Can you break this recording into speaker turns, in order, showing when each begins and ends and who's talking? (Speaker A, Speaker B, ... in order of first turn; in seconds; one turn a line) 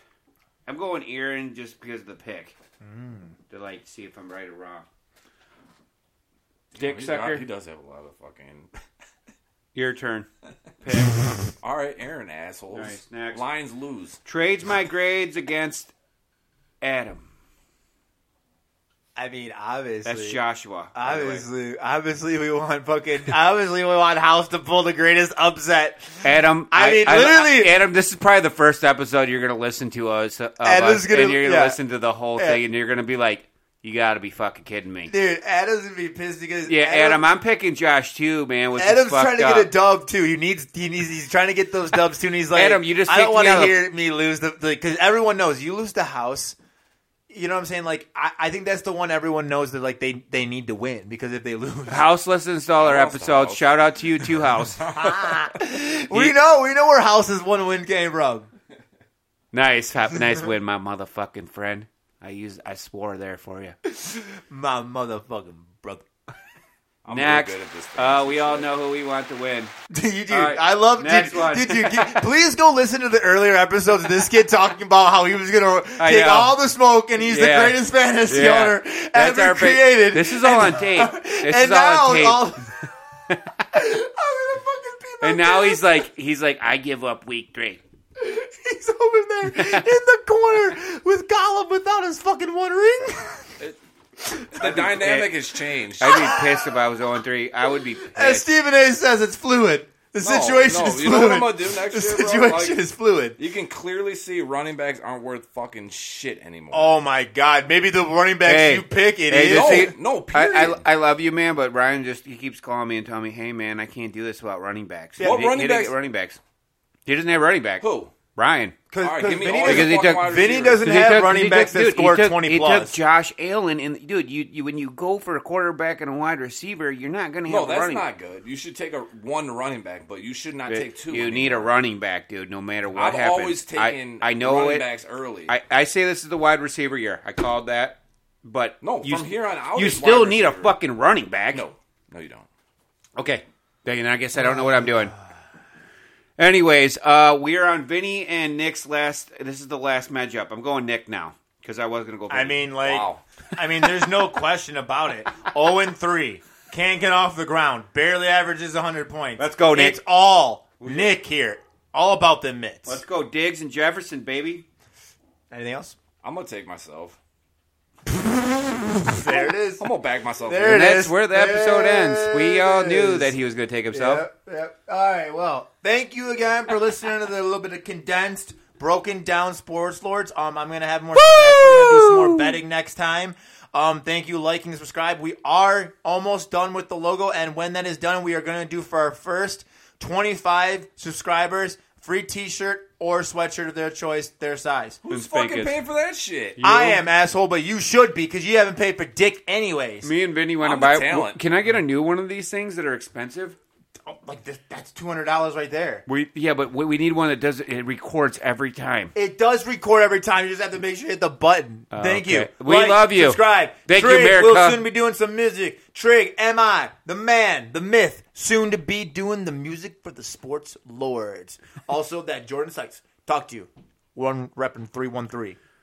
Speaker A: 0.7-2.5
Speaker B: 2.8-3.4
Speaker A: 3.5-4.9
Speaker A: 6.8-7.4
Speaker C: 6.8-8.7
Speaker A: 9.7-10.3
Speaker A: 10.8-11.5
Speaker C: 11.6-14.2
Speaker A: 12.7-13.4
Speaker A: 14.2-15.9
Speaker A: 16.8-17.3
Speaker B: 19.1-20.4
Speaker A: 20.1-21.5
Speaker B: 20.9-27.8
Speaker A: 26.2-35.1
Speaker B: 30.6-31.8
Speaker B: 32.4-32.6
Speaker B: 35.1-37.3
Speaker A: 36.7-39.7
Speaker B: 38.8-46.6
Speaker A: 42.5-43.8
Speaker B: 47.3-52.1
Speaker A: 51.9-55.1
Speaker C: 52.8-54.9
Speaker B: 54.9-58.5
Speaker A: 56.1-56.4
Speaker A: 59.5-63.8
Speaker B: 63.9-66.1
Speaker C: 67.0-68.7
Speaker A: 67.1-69.7
Speaker B: 69.9-82.9
Speaker A: 70.3-72.2
Speaker A: 76.0-76.5
Speaker A: 77.2-82.5
Speaker B: 83.7-86.0
Speaker A: 85.2-87.8
Speaker B: 88.2-93.5
Speaker A: 89.5-89.8
Speaker B: 94.2-95.3
Speaker C: 94.5-96.4
Speaker A: 94.6-95.3
Speaker A: 96.0-98.5
Speaker B: 96.0-96.7
Speaker B: 98.1-103.4
Speaker C: 100.2-102.8
Speaker C: 103.4-107.0
Speaker B: 106.7-109.9
Speaker A: 108.4-116.4
Speaker C: 109.4-110.8
Speaker B: 115.2-115.5
Speaker C: 115.2-116.0
Speaker A: 117.1-118.8
Speaker C: 117.8-118.1
Speaker B: 118.9-123.0
Speaker C: 119.0-120.8
Speaker A: 119.6-128.1
Speaker C: 127.5-131.7
Speaker A: 130.7-134.9
Speaker C: 132.9-135.6
Speaker A: 135.5-141.7
Speaker C: 138.8-140.8
Speaker C: 141.5-142.5
Speaker A: 143.2-145.1
Speaker B: 144.3-145.3
Speaker A: 146.4-152.8
Speaker B: 152.3-163.0
Speaker C: 152.8-153.2
Speaker A: 159.4-160.0
Speaker A: 160.8-161.1
Speaker A: 162.9-164.7
Speaker B: 165.5-166.0
Speaker C: 166.2-167.2
Speaker B: 168.1-169.8
Speaker C: 169.8-171.1
Speaker B: 170.4-173.4
Speaker A: 170.6-174.2
Speaker B: 173.9-195.0
Speaker A: 181.1-182.6
Speaker C: 195.1-196.6
Speaker A: 195.1-195.8
Speaker A: 196.6-197.0
Speaker B: 196.6-200.1
Speaker A: 200.0-203.6
Speaker C: 200.6-201.4
Speaker B: 204.0-206.1
Speaker A: 206.1-209.1
Speaker B: 209.2-225.6
Speaker A: 211.9-214.9